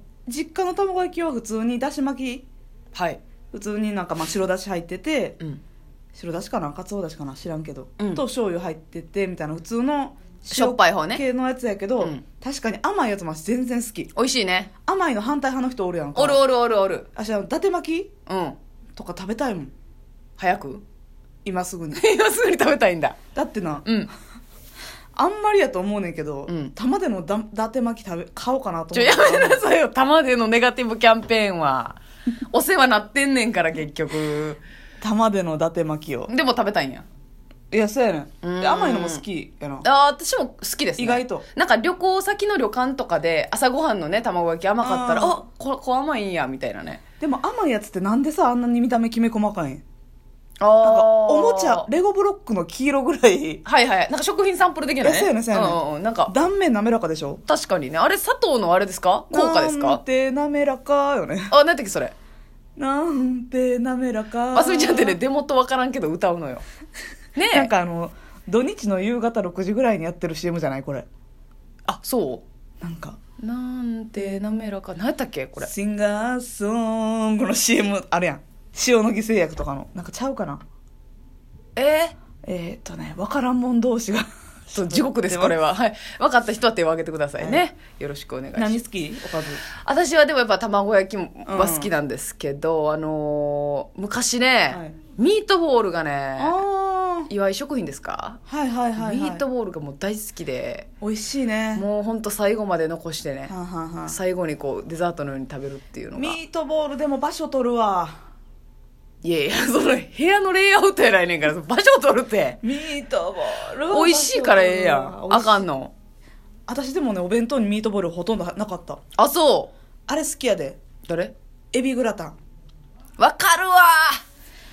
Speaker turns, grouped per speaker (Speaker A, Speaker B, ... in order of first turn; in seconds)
Speaker A: 0.2-2.5, 3.5-5.4, 6.1-14.1, 14.9-16.4, 17.1-18.1, 19.0-19.7, 21.4-22.0, 23.4-23.9, 25.1-29.6, 35.0-36.3, 37.7-39.9, 41.0-41.5, 44.8-45.4, 47.2-49.8, 50.8-53.6, 55.0-57.4, 59.3-61.5, 62.8-65.2, 67.5-71.1, 72.8-73.2, 75.6-80.6, 82.5-85.6, 88.6-89.6, 91.5-91.9, 94.7-95.0, 96.4-97.3, 98.5-99.5, 101.0-101.9, 103.5-104.2, 106.2-108.2, 112.6-115.7, 116.7-119.0, 120.1-120.8, 121.7-122.4
Speaker B: 2.9-3.2, 8.0-8.2, 10.5-11.2, 14.2-14.7, 16.2-17.1, 18.3-18.6, 20.4-20.8, 21.9-23.2, 26.5-26.7, 28.9-32.0, 32.5-34.6, 36.3-37.0, 38.4-39.2, 39.8-47.0, 50.6-51.9, 53.6-56.3, 57.5-60.0, 61.5-62.1, 64.5-66.6, 67.3-67.7, 71.9-72.4, 73.4-75.7, 81.8-82.1, 84.8-88.8, 89.8-96.6, 97.3-98.4, 99.0-100.9, 101.7-103.5, 104.1-106.4, 109.2-112.6, 113.9-115.9, 119.2-119.7, 121.1-121.3, 123.2-124.2